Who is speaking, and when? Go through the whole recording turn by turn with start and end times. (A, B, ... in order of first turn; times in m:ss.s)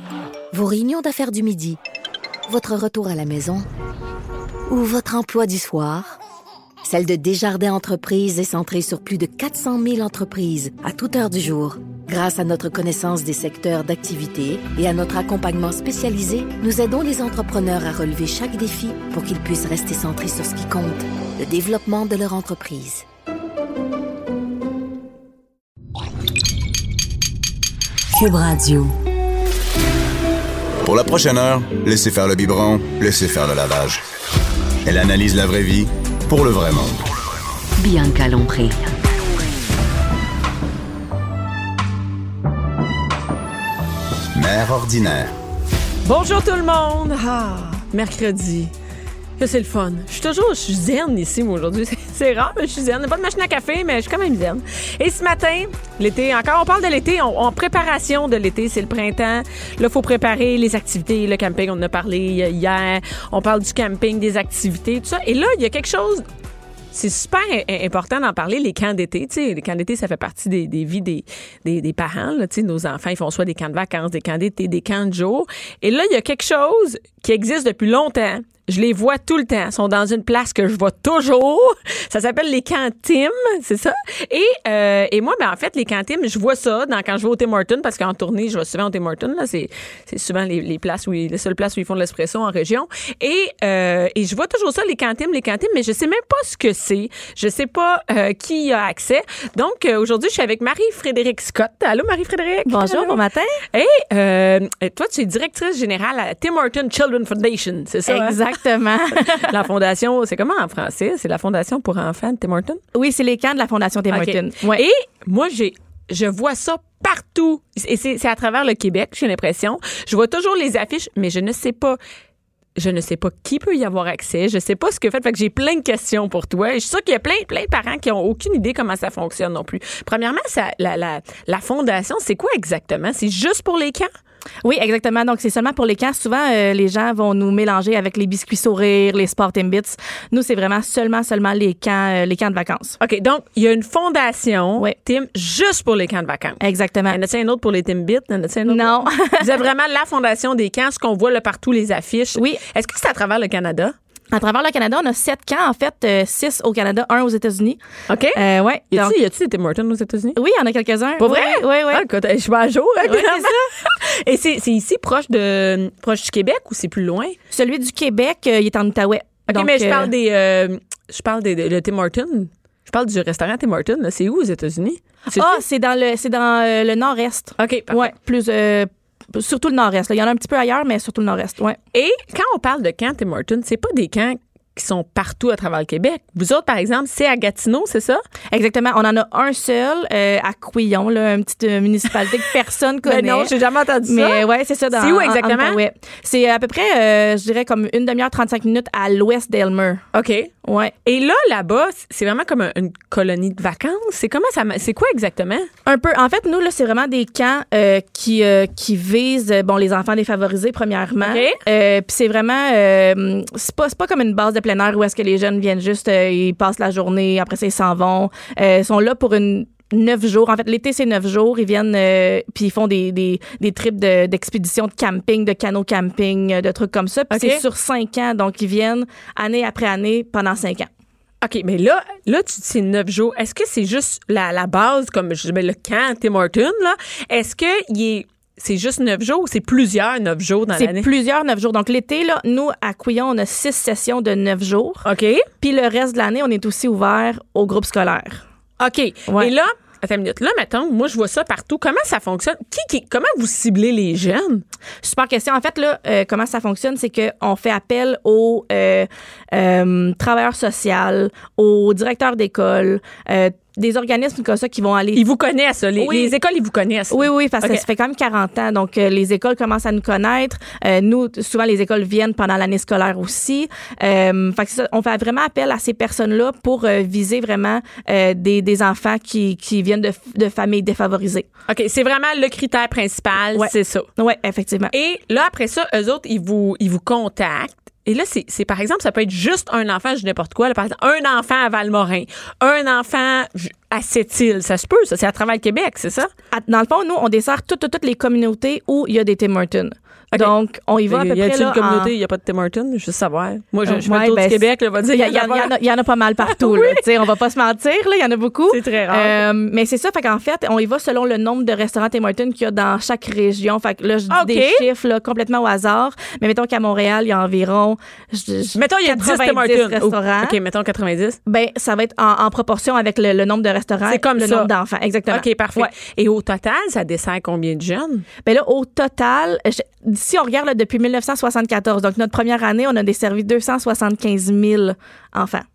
0:00.5-0:01.8 A
0:02.5-0:03.6 A
0:04.7-0:05.8 A
0:06.9-0:09.5 A
0:10.0-0:11.4 A
0:11.9-0:15.6 A
0:16.1-0:23.0 A
0:28.1-0:28.9 B
0:30.8-0:34.0 C
0:34.8-0:37.0 C
0:37.8-0:38.9 B
0:44.3-0:45.3 C
0:46.0-0:48.7 D
0:49.4-1:06.2 D
1:06.9-1:43.2 D
1:42.7-1:43.6 E
1:43.7-1:48.4 D
1:48.1-1:49.5 E
1:49.2-1:52.8 D
1:52.9-1:54.8 E
1:54.1-2:02.0 D
2:02.8-2:14.1 D
2:14.6-2:23.0 E
2:23.0-2:33.9 D
2:26.6-2:27.2 E
2:28.6-2:29.5 E
2:32.3-2:32.6 E
2:34.3-2:37.8 E
2:38.1-2:38.4 D
2:38.3-2:39.1 E
2:38.9-2:40.4 D
2:40.4-2:42.0 E
2:41.2-2:47.4 D
2:43.0-2:43.7 E
2:47.5-2:50.1 E
2:49.5-2:55.6 D
2:55.3-3:01.8 E
2:57.6-2:58.1 D
3:01.9-3:08.2 D
3:08.5-3:13.5 E
3:13.0-3:14.4 D
3:14.0-3:20.0 E
3:14.9-3:15.8 D
3:20.1-3:20.5 D
3:20.6-3:20.9 E
3:21.0-3:25.7 D
3:25.8-3:50.9 E
3:31.2-3:31.6 D
3:47.3-3:47.6 D
3:51.4-4:01.1 D
4:00.7-4:05.0 E
4:05.0-4:05.4 D
4:05.6-4:08.4 E
4:08.8-4:14.6 D
4:09.3-4:09.5 E
4:15.0-4:25.3 E
4:25.1-4:27.8 D
4:26.0-4:26.3 E
4:27.1-4:41.5 E
4:41.7-4:44.1 D
4:43.5-4:44.9 E
4:44.9-4:56.3 D
4:56.5-5:02.1 E
5:01.1-5:05.7 D
5:03.8-5:20.6 E
5:06.4-5:07.0 D
5:08.7-5:09.4 D
5:14.3-5:14.8 D
5:18.7-5:21.4 D
5:21.5-5:25.9 E
5:24.1-5:24.7 D
5:25.3-5:28.2 D
5:28.4-5:35.6 E